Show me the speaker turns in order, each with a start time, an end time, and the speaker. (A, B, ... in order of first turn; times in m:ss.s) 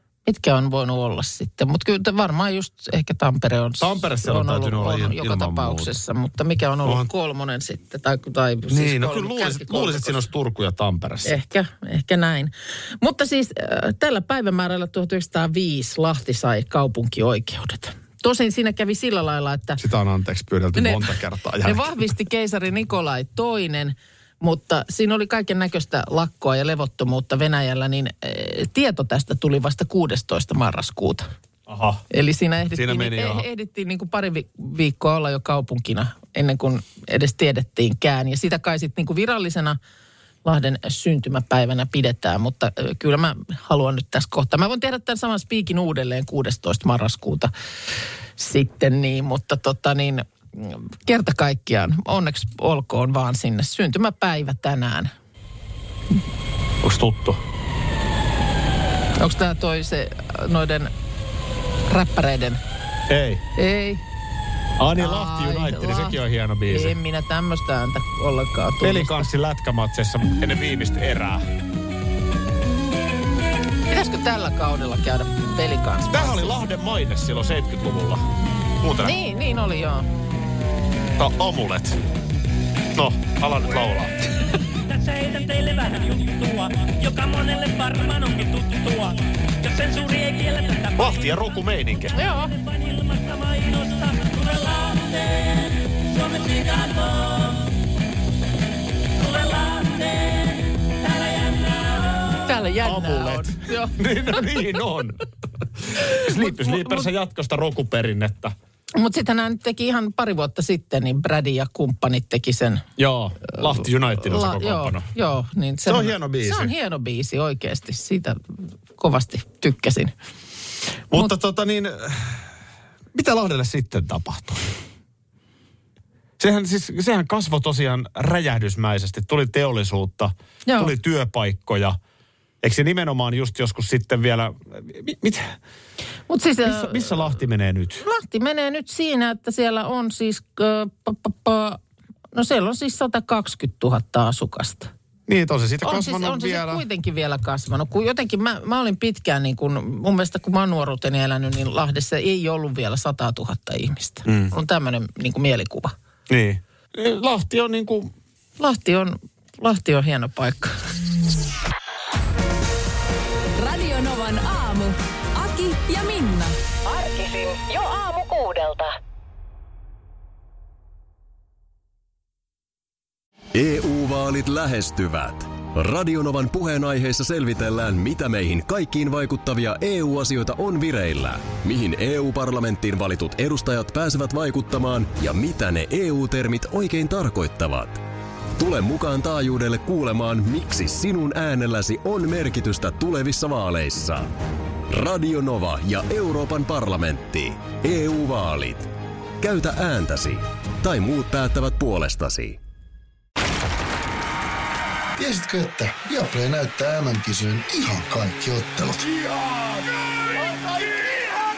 0:00.2-0:10.2 A
0:03.8-0:06.0 B
0:08.7-0:11.3 B
0:11.2-0:19.8 A
0:19.8-0:21.9 B
0:20.7-0:21.0 A
0:21.6-0:31.3 A
0:31.7-0:32.0 B
0:32.1-0:39.8 A
0:32.7-0:33.4 B
0:40.4-0:47.5 A
0:48.4-0:55.1 A
0:56.8-0:57.4 B
0:59.2-1:00.9 A
1:01.9-1:02.6 A
1:03.1-1:03.4 B
1:03.6-1:04.0 A
1:04.8-1:07.0 B
1:05.0-1:06.2 A
1:06.7-1:09.3 A
1:08.8-1:11.4 B
1:13.9-1:16.5 A
1:16.1-1:18.2 B
1:18.8-1:19.2 B
1:19.0-1:20.1 A
1:21.2-1:22.0 B
1:22.9-1:24.1 B
1:24.9-1:31.6 C
1:31.0-1:32.1 B
1:32.1-1:32.5 A
1:32.3-1:37.7 C
1:39.2-1:42.5 C
1:42.4-1:44.5 A
1:42.8-1:45.2 B
1:45.8-1:48.5 B
1:46.2-1:47.1 A
1:49.0-1:52.8 A
1:53.0-1:55.1 B
1:53.5-2:00.1 A
1:55.8-1:56.7 B
2:01.1-2:02.4 B
2:03.1-2:04.7 B
2:06.4-2:12.0 B
2:10.7-2:10.9 A
2:12.6-2:15.6 B
2:16.3-2:17.3 A
2:16.6-2:18.0 B
2:18.0-2:21.8 A
2:22.3-2:24.9 A
2:25.3-2:26.8 B
2:25.8-2:35.9 A
2:34.2-2:34.5 B
2:36.3-2:38.1 B
2:38.6-2:40.8 A
2:43.6-2:46.6 D
2:46.8-2:48.9 E
2:53.5-3:08.0 F
3:08.6-3:14.3 F
3:14.9-3:18.9 F
3:19.4-3:22.6 F
3:25.2-3:29.1 G